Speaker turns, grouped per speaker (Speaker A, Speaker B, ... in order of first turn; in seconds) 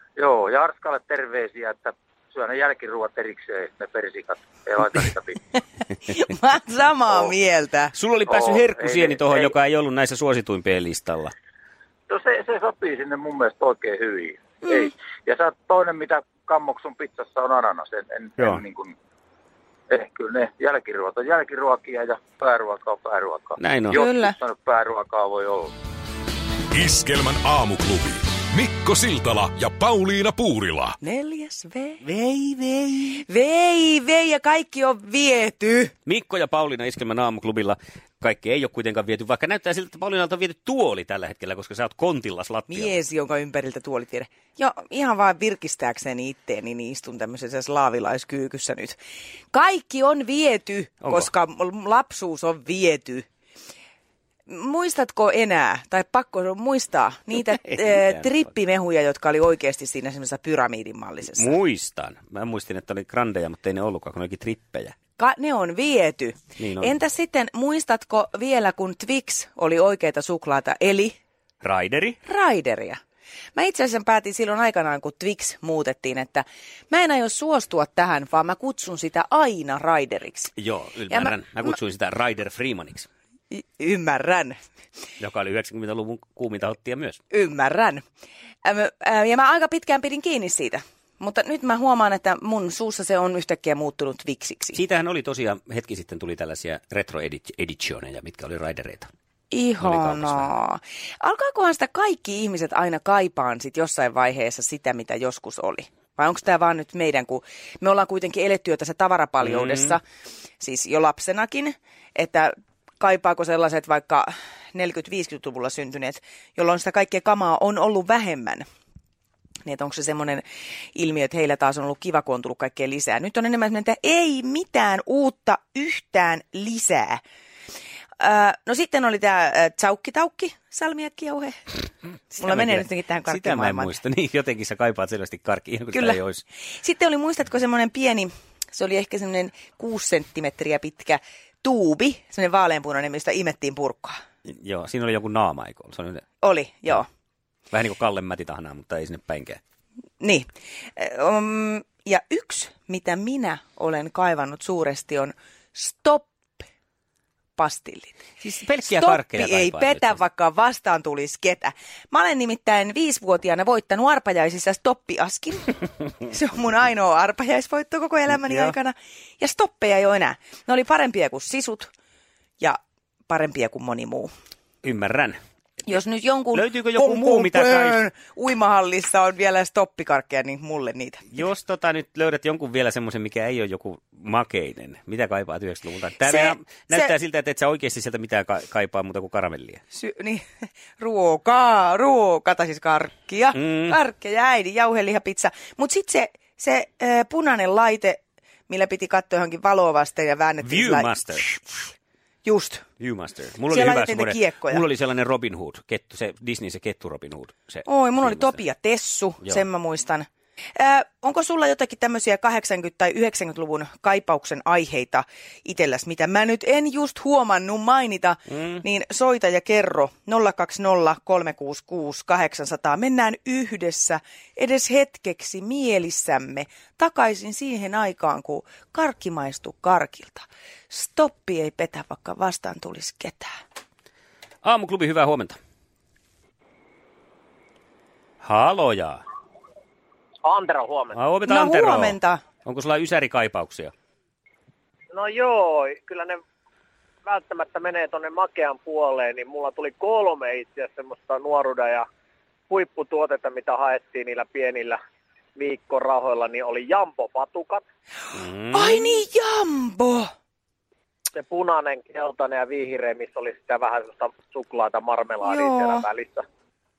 Speaker A: 0.1-5.4, 8.3-9.5, 12.1-18.9, 19.9-25.7
Speaker B: 6.0-7.9, 14.6-14.9, 24.0-24.3, 31.0-32.0, 33.3-35.9, 42.7-49.0, 49.5-53.2, 54.5-61.5, 65.2-71.1, 72.2-73.0, 73.5-80.5, 81.1-81.3, 83.5-84.6, 87.3-88.0, 88.7-94.8, 99.5-110.0, 110.6-118.6, 119.6-127.2, 128.2-131.6, 132.3-133.9, 135.9-144.2, 146.4-147.1, 150.2-156.7, 157.6-158.2, 158.8-171.9, 172.6-174.3, 175.9-181.2, 186.2-187.1, 189.9-190.4, 191.0-201.6, 202.4-202.8, 203.7-204.8, 207.8-233.5, 241.5-242.4, 258.7-260.3, 265.4-266.0
Speaker C: 7.9-11.3, 18.4-18.6, 23.6-24.0, 32.0-33.2, 36.0-43.0, 51.0-51.3, 57.7-58.2, 61.3-64.9, 66.6-66.9, 71.6-72.2, 80.5-83.1, 85.2-87.2, 94.7-99.1, 99.8-100.5, 109.4-109.9, 132.4-136.4, 144.4-146.2, 147.7-149.6, 158.4-160.2, 168.3-168.7, 174.8-175.4, 176.5-178.0, 181.3-189.8, 193.5-194.0, 200.6-201.5, 203.0-208.5, 218.5-218.8, 234.6-235.6, 238.4-239.2, 241.1-243.9, 258.3-259.1
Speaker D: 26.7-31.0
Speaker E: 240.4-241.2, 245.1-246.4, 247.2-252.0, 252.7-255.0, 255.6-257.8, 261.4-266.4